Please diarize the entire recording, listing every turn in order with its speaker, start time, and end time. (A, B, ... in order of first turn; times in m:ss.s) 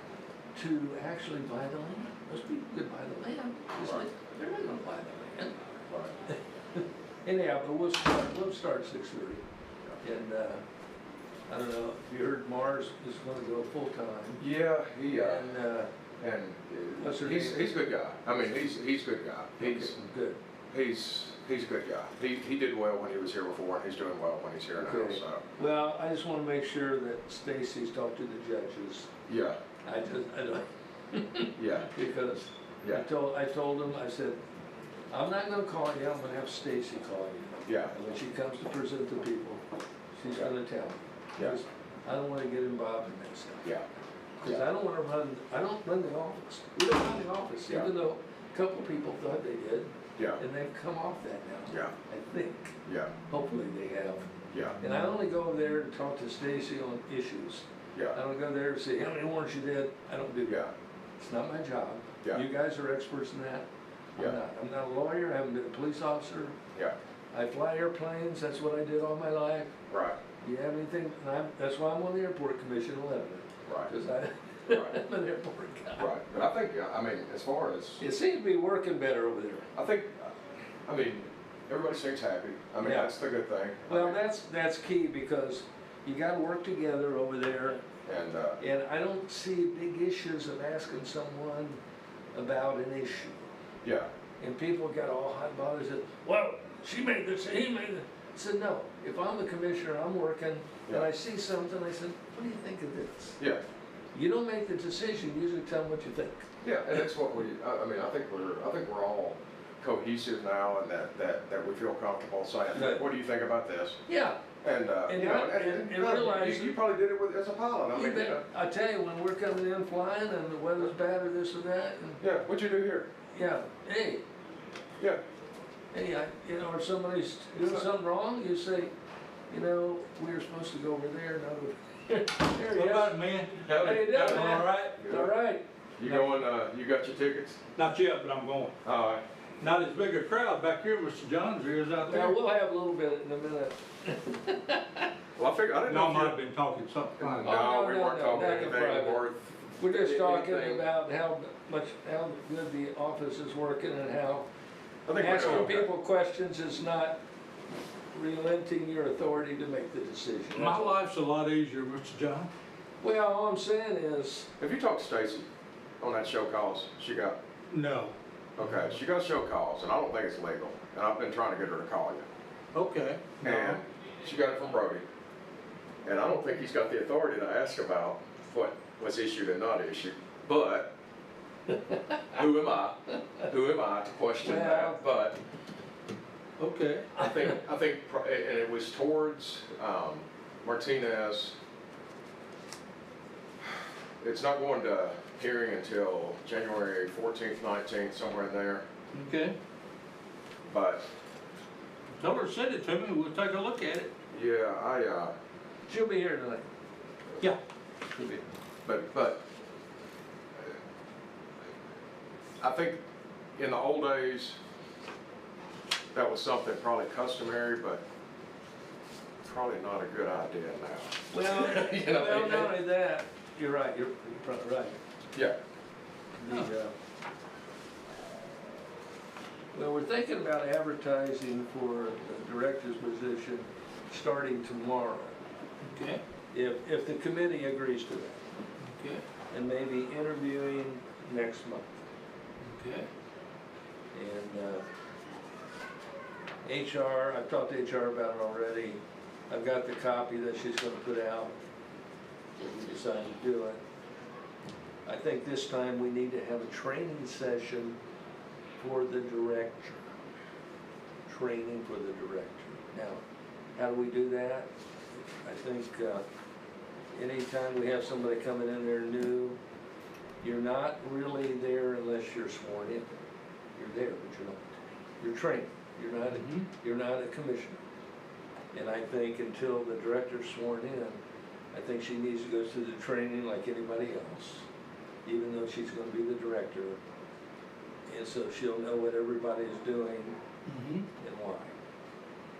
0:00.5-0:05.5 A
0:03.8-0:04.0 B
0:06.3-0:09.4 A
0:10.0-0:10.6 A
0:11.5-0:14.4 A
0:14.4-0:15.5 B
0:15.1-0:15.9 A
0:16.2-0:19.9 B
0:17.0-0:17.7 A
0:19.6-0:20.4 A
0:20.7-0:25.4 B
0:24.8-0:29.1 A
0:29.3-0:29.6 B
0:29.8-0:34.4 A
0:31.6-0:31.9 B
0:35.1-0:39.6 A
0:37.6-0:37.9 B
0:40.1-0:43.7 A
0:44.4-0:52.8 A
0:51.7-0:51.9 B
0:52.8-0:53.1 B
0:53.3-0:54.3 A
0:54.5-0:54.8 B
0:54.8-1:00.6 A
1:00.4-1:00.7 B
1:01.2-1:03.6 A
1:04.2-1:06.6 A
1:07.3-1:09.7 A
1:09.9-1:10.2 B
1:10.4-1:16.4 A
1:13.6-1:13.9 B
1:14.7-1:15.0 B
1:16.0-1:18.0 B
1:18.0-1:19.7 A
1:19.7-1:20.3 B
1:20.8-1:24.2 B
1:22.8-1:23.1 A
1:23.9-1:27.8 A
1:28.0-1:28.6 B
1:28.6-1:31.8 A
1:32.3-1:33.4 A
1:33.8-1:34.1 B
1:34.4-1:43.4 A
1:44.1-1:46.4 A
1:46.6-1:54.0 B
1:52.7-1:53.1 A
1:54.1-1:54.4 A
1:54.6-1:58.4 B
1:55.1-1:56.7 A
1:57.9-2:02.2 A
2:02.2-2:03.1 B
2:03.3-2:04.2 A
2:05.9-2:08.9 A
2:07.6-2:07.9 B
2:09.5-2:13.2 A
2:12.7-2:15.0 C
2:13.6-2:15.3 B
2:13.7-2:16.4 A
2:16.0-2:17.6 B
2:17.8-2:18.8 C
2:18.8-2:19.2 B
2:19.6-2:22.4 C
2:22.0-2:25.1 A
2:25.4-2:26.4 B
2:25.8-2:27.6 C
2:27.2-2:30.8 B
2:27.4-2:29.2 A
2:29.8-2:34.5 A
2:35.0-2:35.9 B
2:35.2-2:37.2 A
2:38.1-2:41.0 A
2:40.5-2:42.5 C
2:43.0-2:44.5 A
2:44.6-2:45.5 B
2:46.0-2:47.4 B
2:47.7-2:48.9 C
2:48.6-2:52.2 B
2:52.7-2:53.8 C
2:53.4-2:55.0 B
2:56.0-3:00.9 B
3:01.9-3:02.2 A
3:02.3-3:05.4 B
3:04.4-3:05.0 A
3:06.6-3:07.1 C
3:07.2-3:11.6 B
3:14.2-3:18.8 B
3:19.1-3:19.5 C
3:20.7-3:21.0 B
3:22.2-3:24.1 C
3:24.3-3:25.3 B
3:25.9-3:26.6 A
3:28.8-3:29.4 B
3:32.6-3:33.0 B
3:33.6-3:34.6 B
3:36.1-3:38.0 B
3:39.4-3:42.7 B
3:41.3-3:45.0 A
3:46.4-3:46.9 A
3:49.7-3:55.4 A
3:55.8-3:56.2 C
3:56.5-3:58.4 A
3:58.8-3:59.2 C
3:59.5-4:02.0 A
4:02.6-4:03.1 C
4:04.1-4:04.8 A
4:06.6-4:09.0 A
4:09.5-4:11.6 A
4:12.6-4:13.8 A
4:15.0-4:18.0 A
4:18.8-4:20.0 A
4:21.3-4:23.2 A
4:23.7-4:26.2 A
4:27.1-4:29.6 A
4:30.4-4:33.2 A
4:33.8-4:37.8 A
4:36.3-4:36.7 C
4:38.7-4:41.2 A
4:41.7-4:44.6 A
4:45.2-4:47.0 A
4:48.1-4:50.4 A
4:50.7-4:51.0 C
4:51.2-4:51.7 A